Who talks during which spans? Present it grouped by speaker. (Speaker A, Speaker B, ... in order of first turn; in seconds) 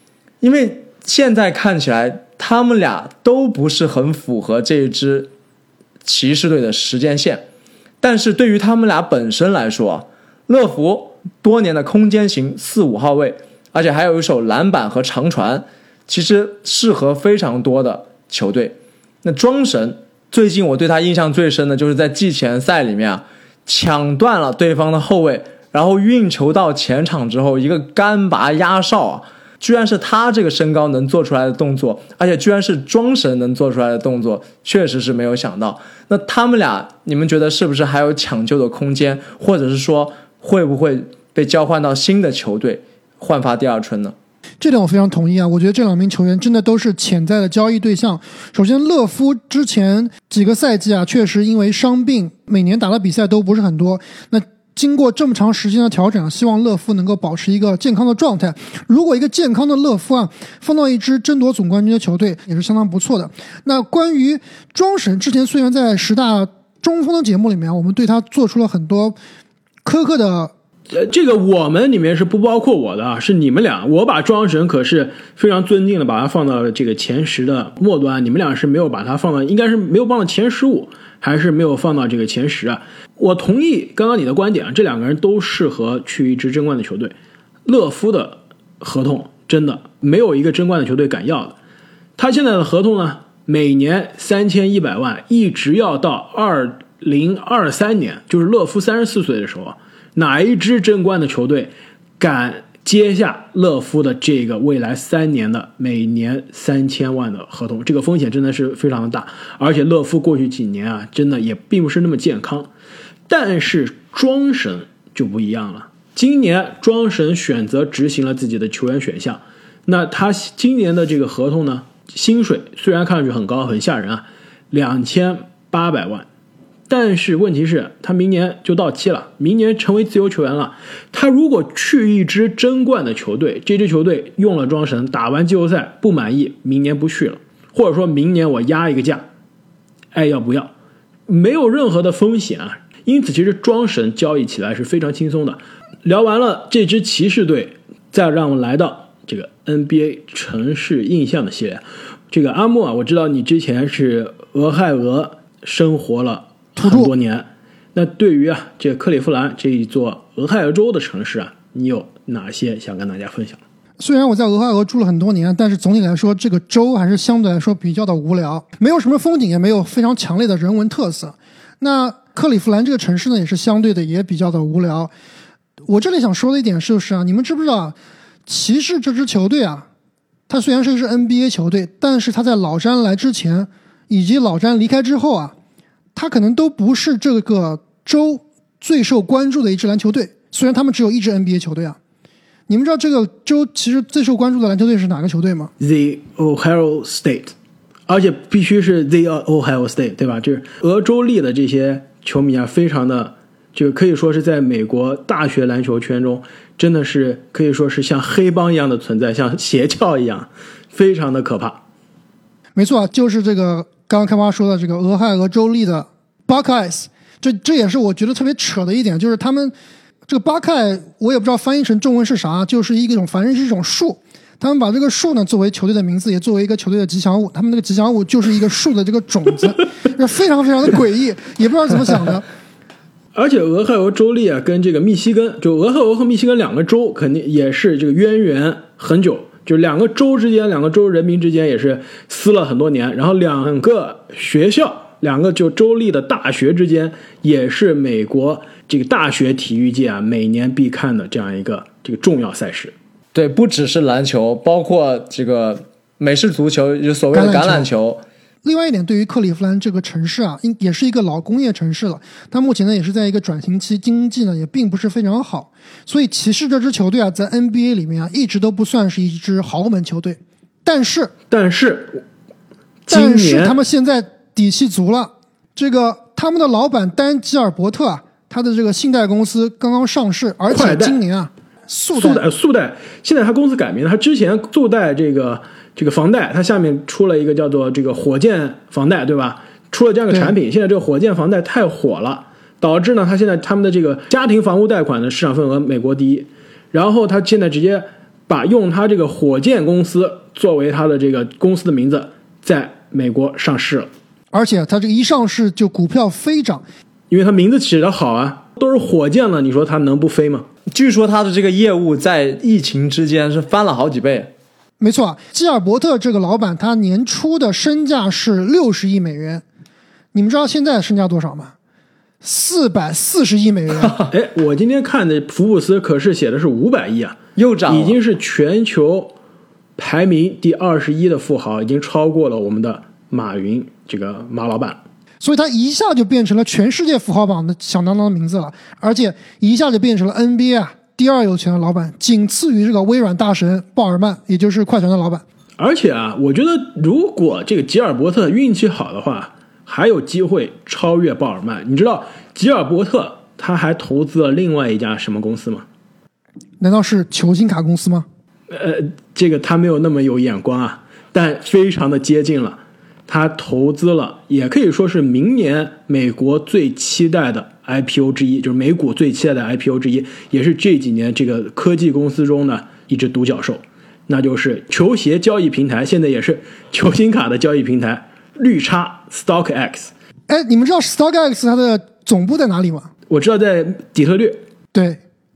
Speaker A: 0.4-5.3, 6.0-7.4, 8.0-44.1, 253.3-258.2, 310.9-314.5, 327.6-328.2
Speaker B: 44.6-69.2, 69.8-70.5, 156.8-157.1, 164.0-175.1, 175.9-177.9, 178.5-179.9, 180.5-185.5, 186.2-192.0, 192.7-195.7, 212.8-219.8, 220.3-232.4, 257.3-257.9, 258.6-271.3, 273.1-282.4, 304.5-306.8, 315.0-319.6, 320.3-321.7, 322.4-324.3, 335.4-345.4, 356.8-358.3, 380.5-383.1, 384.9-385.2
Speaker C: 70.9-87.1, 87.7-91.6, 92.2-112.7, 113.3-126.3, 126.9-139.2, 140.1-140.7, 141.3-163.6, 195.8-197.5, 198.1-211.8, 233.3-252.9, 271.5-272.2, 273.1-273.8, 280.7-281.2, 282.1-304.1, 307.3-310.7, 324.3-329.4, 330.0-335.0, 345.8-355.9, 358.7-380.1, 383.3-384.6